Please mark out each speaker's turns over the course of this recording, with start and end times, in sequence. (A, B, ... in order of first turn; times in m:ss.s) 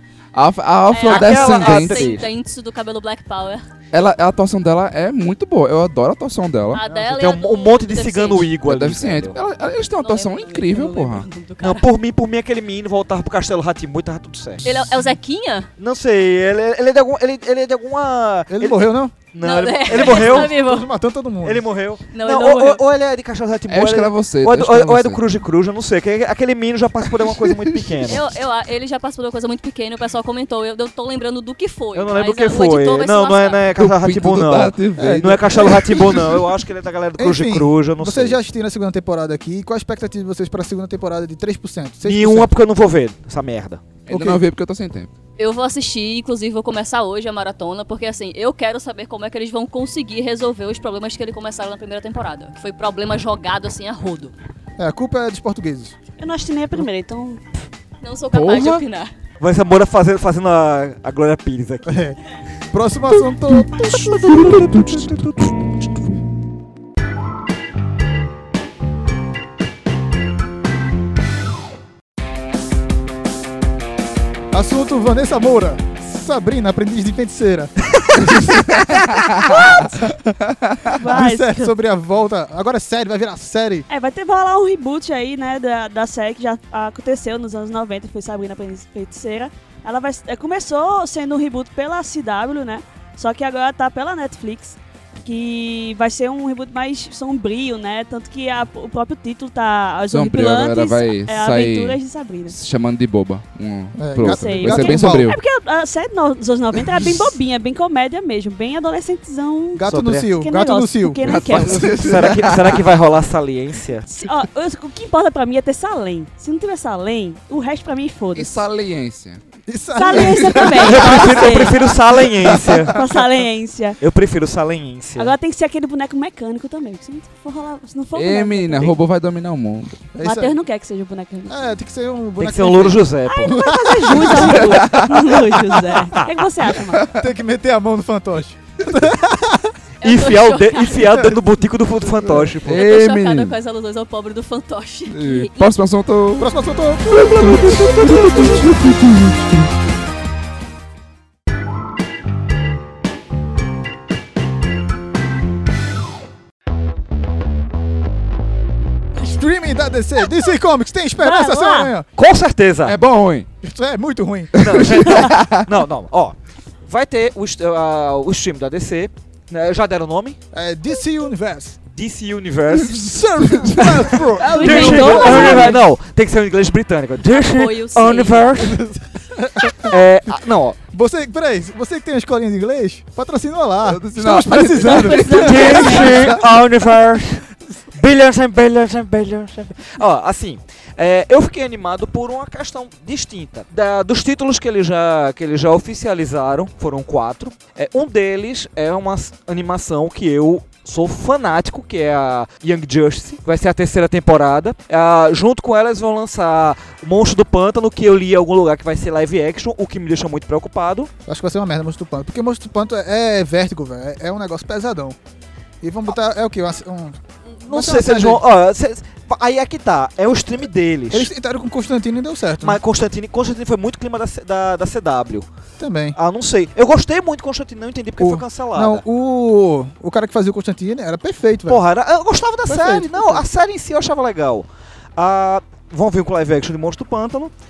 0:00.3-0:02.1 A
0:00.9-0:03.6 B
0:01.1-0:02.2 C
0:03.9-0:06.8 A
0:06.7-0:08.5 B
0:06.8-0:09.4 C
0:08.6-0:11.2 A
0:10.0-0:11.8 B
0:11.6-0:14.7 C
0:14.6-0:15.7 B
0:15.8-0:20.6 C
0:18.5-0:19.1 D
0:19.4-0:20.9 B
0:20.0-0:21.6 D
0:21.4-0:28.2 C
0:22.1-0:22.8 B
0:23.7-0:25.2 A
0:28.0-0:33.6 B
0:31.9-0:38.4 C
0:33.8-0:36.4 A
0:35.0-0:35.7 D
0:37.2-0:42.5 D
0:42.0-0:43.8 C
0:44.1-0:45.1 A
0:44.1-0:44.4 D
0:45.4-0:54.3 B
0:54.8-0:55.9 D
0:56.2-0:57.4 E
0:58.0-0:59.1 B
0:58.3-0:58.8 A
0:59.4-1:02.0 C
1:01.8-1:02.2 D
1:02.7-1:04.9 D
1:03.6-1:05.7 C
1:14.5-1:18.7 D
1:18.7-1:19.9 A
1:19.5-1:19.9 E
1:20.4-1:20.9 A
1:20.9-1:21.7 E
1:21.0-1:23.8 D
1:23.9-1:42.6 E
1:40.1-1:45.4 A
1:44.0-1:45.3 D
1:44.2-1:52.0 E
1:49.7-1:51.9 D
1:49.9-1:50.3 C
1:51.2-1:52.8 A
1:51.7-1:54.1 C
1:54.1-1:58.6 E
1:58.3-1:59.4 A
1:59.7-2:03.0 D
2:00.0-2:01.8 E
2:00.7-2:03.0 C
2:02.8-2:04.0 E
2:04.0-2:05.3 C
2:05.2-2:09.0 E
2:08.1-2:10.0 A
2:10.1-2:10.6 D
2:10.2-2:11.7 E
2:11.5-2:14.8 D
2:12.4-2:13.7 C
2:13.2-2:17.1 E
2:14.2-2:15.6 A
2:17.1-2:19.7 D
2:20.0-2:21.2 B
2:20.0-2:22.9 C
2:21.0-2:21.4 D
2:22.5-2:23.5 A
2:22.7-2:25.7 B
2:25.1-2:26.5 A
2:26.4-2:28.7 D
2:27.1-2:29.7 A
2:39.1-2:42.1 D
2:41.2-2:41.9 E
2:42.2-2:43.0 C
2:42.8-2:43.5 A
2:43.6-2:45.2 D
2:44.6-2:45.7 A
2:44.6-2:50.4 C
2:50.5-2:51.8 D
2:51.9-2:53.0 C
2:52.9-2:55.8 D
2:53.4-2:54.2 A
2:54.4-2:55.8 E
2:54.5-2:58.8 C
2:54.6-2:55.8 B
2:57.2-2:58.6 B
2:58.6-3:00.3 D
2:59.9-3:00.8 C
3:00.9-3:06.4 D
3:03.8-3:06.4 A
3:04.8-3:06.2 E
3:05.3-3:31.1 C
3:31.2-3:35.2 D
3:35.8-3:38.4 D
3:37.5-3:41.3 C
3:41.1-3:42.8 D
3:42.6-3:45.5 C
3:45.8-3:46.2 D
3:46.1-3:49.0 C
3:48.2-3:51.8 D
3:51.7-3:57.5 C
3:52.6-3:53.5 D